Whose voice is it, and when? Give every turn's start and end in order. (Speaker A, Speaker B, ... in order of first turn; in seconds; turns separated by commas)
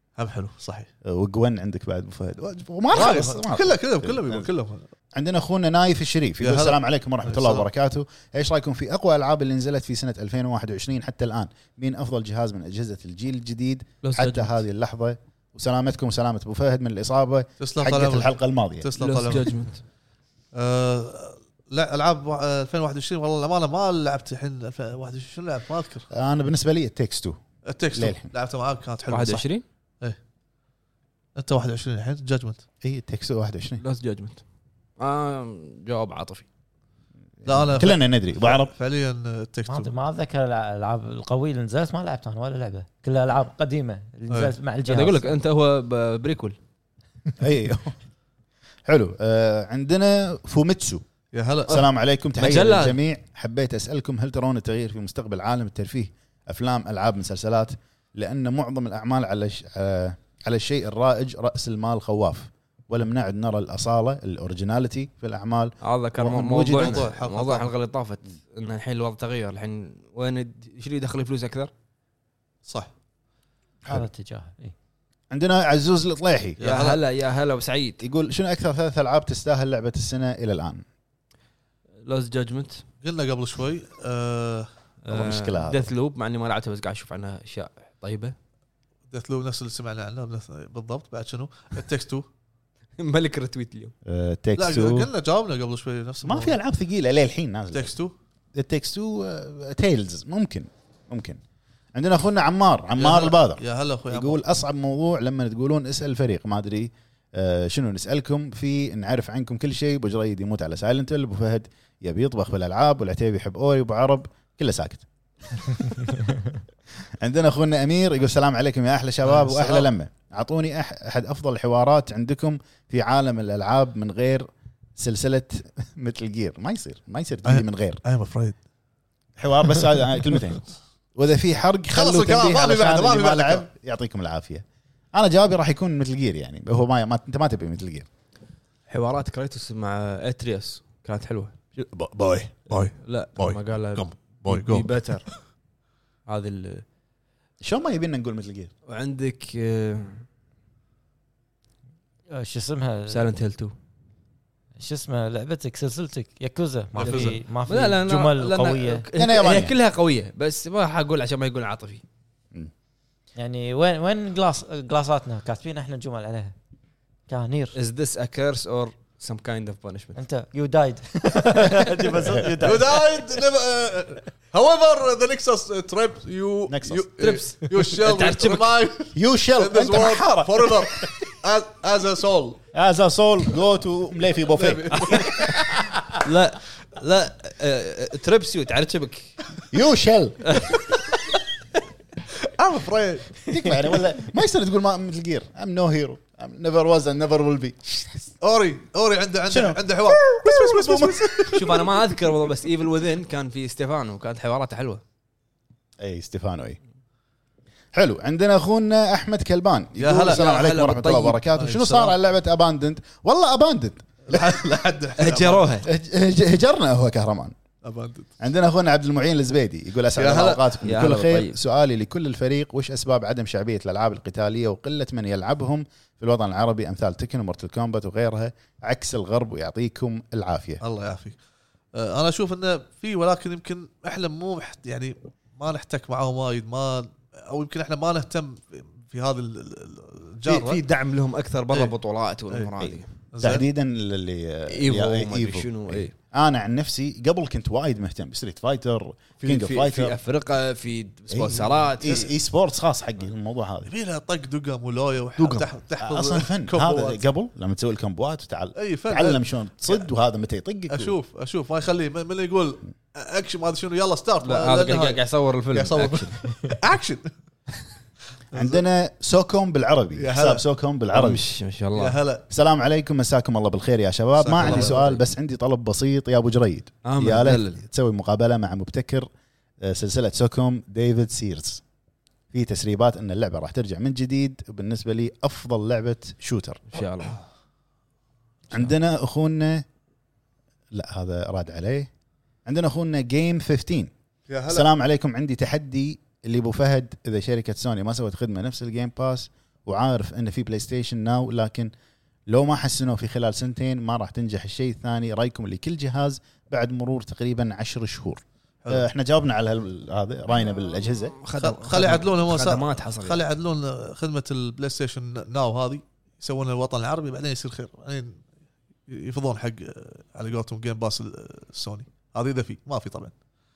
Speaker A: 0.2-0.9, Speaker B: 1.0-4.5, Speaker A: 2.9-4.9, Speaker B: 5.2-18.9, Speaker A: 6.4-7.7, Speaker C: 14.0-14.6, Speaker A: 17.6-19.7, Speaker C: 19.0-19.8, Speaker A: 20.5-26.1, Speaker B: 26.1-27.4, Speaker A: 27.7-29.5, Speaker B: 27.9-28.3, Speaker C: 29.1-29.6, Speaker A: 31.4-32.6, Speaker B: 32.8-33.8, Speaker C: 33.8-34.4, Speaker C: 35.0-36.5, Speaker B: 37.4-38.7, Speaker A: 37.5-39.9, Speaker D: 39.7-45.3, Speaker C: 44.9-46.6, Speaker B: 47.4-47.9, Speaker B: 48.9-51.0, Speaker A: 51.3-51.8, Speaker B: 51.7-67.0, Speaker C: 52.4-53.0, Speaker C: 65.8-71.7, Speaker A: 66.8-67.7, Speaker D: 73.9-74.7, Speaker B: 75.3-76.6, Speaker A: 76.6-77.0, Speaker C: 76.6-78.0, Speaker B: 78.0-80.8, Speaker C: 82.0-82.8, Speaker A: 83.0-84.7, Speaker C: 85.0-88.3, Speaker B: 85.1-85.9, Speaker A: 89.1-92.2, Speaker C: 93.0-93.9, Speaker B: 94.0-95.1, Speaker A: 94.6-96.6, Speaker B: 96.2-97.9, Speaker A: 97.7-98.1, Speaker B: 98.5-101.4, Speaker B: 101.9-116.0, Speaker A: 103.0-104.4, Speaker B: 117.2-128.0, Speaker A: 119.2-119.9, Speaker A: 127.5-128.6, Speaker B: 129.4-138.1, Speaker A: 131.9-133.7, Speaker C: 138.9-141.5, Speaker B: 141.8-142.8, Speaker A: 142.7-144.9, Speaker C: 143.0-145.3, Speaker C: 146.3-146.8, Speaker B: 147.6-148.7, Speaker C: 148.9-150.2, Speaker D: 152.3-153.3, Speaker C: 153.1-153.7, Speaker D: 154.8-159.1, Speaker A: 156.9-157.4, Speaker C: 157.0-162.0, Speaker B: 159.2-159.8, Speaker D: 163.4-166.6, Speaker D: 167.3-167.8, Speaker C: 167.8-170.2, Speaker D: 170.2-173.0, Speaker A: 172.6-182.6, Speaker B: 176.7-177.1, Speaker C: 177.2-178.8, Speaker B: 179.2-181.1, Speaker B: 182.7-185.5, Speaker A: 184.5-185.5, Speaker C: 185.0-189.4, Speaker B: 189.7-190.6, Speaker C: 190.5-191.0, Speaker A: 192.4-193.5, Speaker B: 193.5-198.3, Speaker A: 198.4-201.9, Speaker B: 199.5-201.8, Speaker C: 201.5-205.0, Speaker B: 206.0-206.8, Speaker B: 207.9-214.7, Speaker A: 210.0-210.4, Speaker C: 210.2-211.4, Speaker A: 211.6-212.2, Speaker A: 214.3-215.7, Speaker C: 215.2-215.9, Speaker B: 215.8-217.6, Speaker A: 217.8-218.3, Speaker B: 218.4-230.8, Speaker A: 220.2-220.7, Speaker C: 220.8-221.6, Speaker A: 230.8-231.4, Speaker A: 231.9-240.8, Speaker C: 240.5-243.1, Speaker B: 242.8-250.2, Speaker A: 243.3-243.6, Speaker C: 244.7-246.1, Speaker C: 249.4-252.3, Speaker B: 251.3-253.9, Speaker A: 253.9-257.2, Speaker B: 255.4-261.1, Speaker A: 258.8-260.1, Speaker A: 260.9-267.3, Speaker C: 264.4-266.4, Speaker A: 268.5-268.8, Speaker B: 268.5-271.4, Speaker A: 270.2-270.6, Speaker C: 271.1-272.2, Speaker A: 271.9-272.4, Speaker B: 272.5-279.3, Speaker A: 274.4-275.2, Speaker C: 274.6-275.2, Speaker C: 277.0-277.8, Speaker B: 279.8-281.8, Speaker B: 282.5-286.8, Speaker C: 286.9-287.4, Speaker B: 288.7-289.9, Speaker B: 290.9-292.1, Speaker B: 292.7-294.1, Speaker A: 294.5-294.9, Speaker B: 294.7-301.9, Speaker B: 302.5-311.4, Speaker C: 311.4-313.4, Speaker A: 311.6-318.4, Speaker A: 319.1-323.3